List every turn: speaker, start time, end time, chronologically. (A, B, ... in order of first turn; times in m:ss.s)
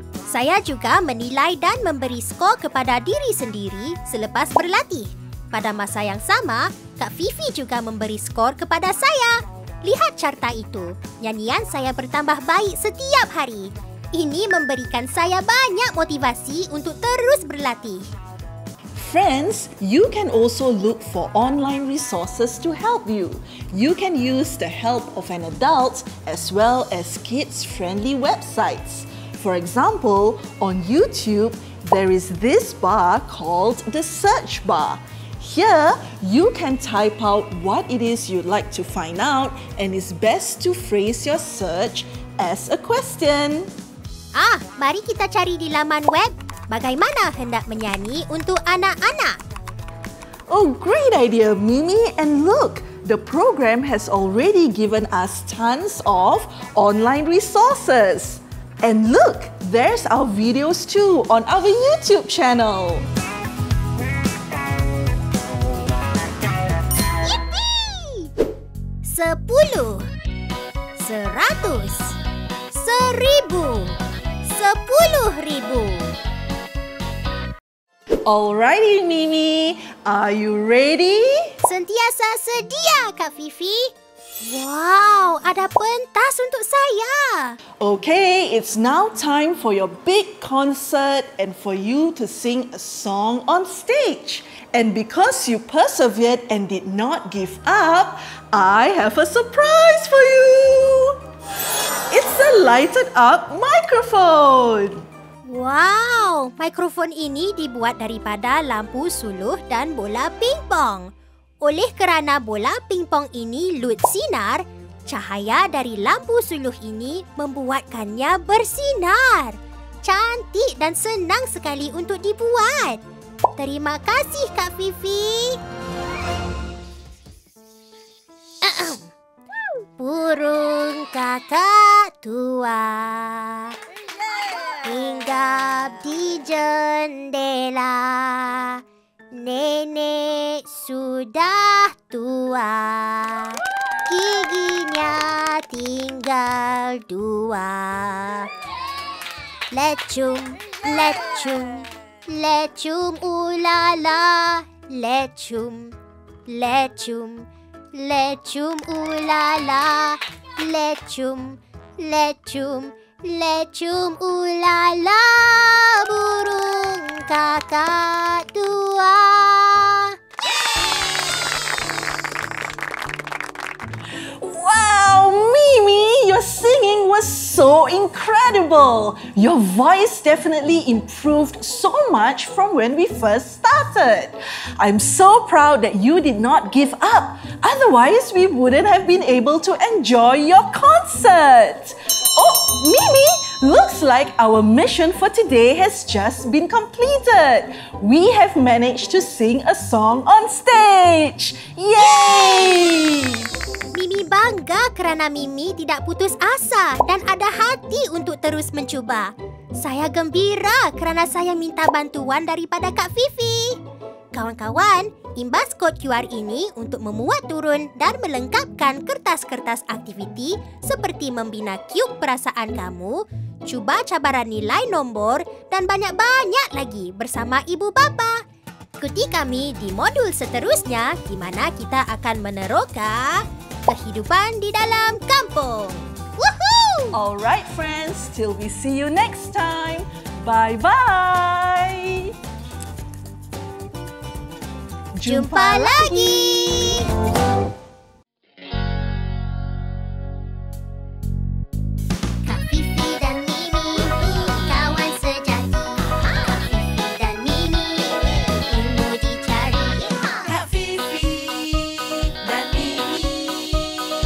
0:00.3-0:18.1 A
0:18.9-0:43.7 B
0:44.3-0:49.4 A
0:50.5-1:03.1 B
1:07.2-1:08.3 A
1:09.0-1:10.1 A
1:11.0-1:12.2 A
1:12.7-1:16.2 A
1:18.2-1:21.5 B
1:21.6-1:27.6 A
1:27.8-1:41.2 B
1:42.1-1:45.0 B
1:45.5-1:51.1 A
1:51.6-2:03.0 A
2:03.6-2:05.6 A
2:08.6-2:09.1 A
2:10.0-2:13.8 A
2:14.8-2:28.5 A
2:29.7-2:35.9 A
2:36.5-2:50.2 A
2:54.4-3:23.5 B
3:22.0-3:22.9 A
3:23.9-3:33.8 A
3:34.3-3:48.4 A
3:49.0-3:57.1 A
3:57.1-4:02.3 B
4:05.1-4:06.7 B
4:05.2-4:07.1 A
4:12.4-4:20.7 A
4:22.6-4:23.1 A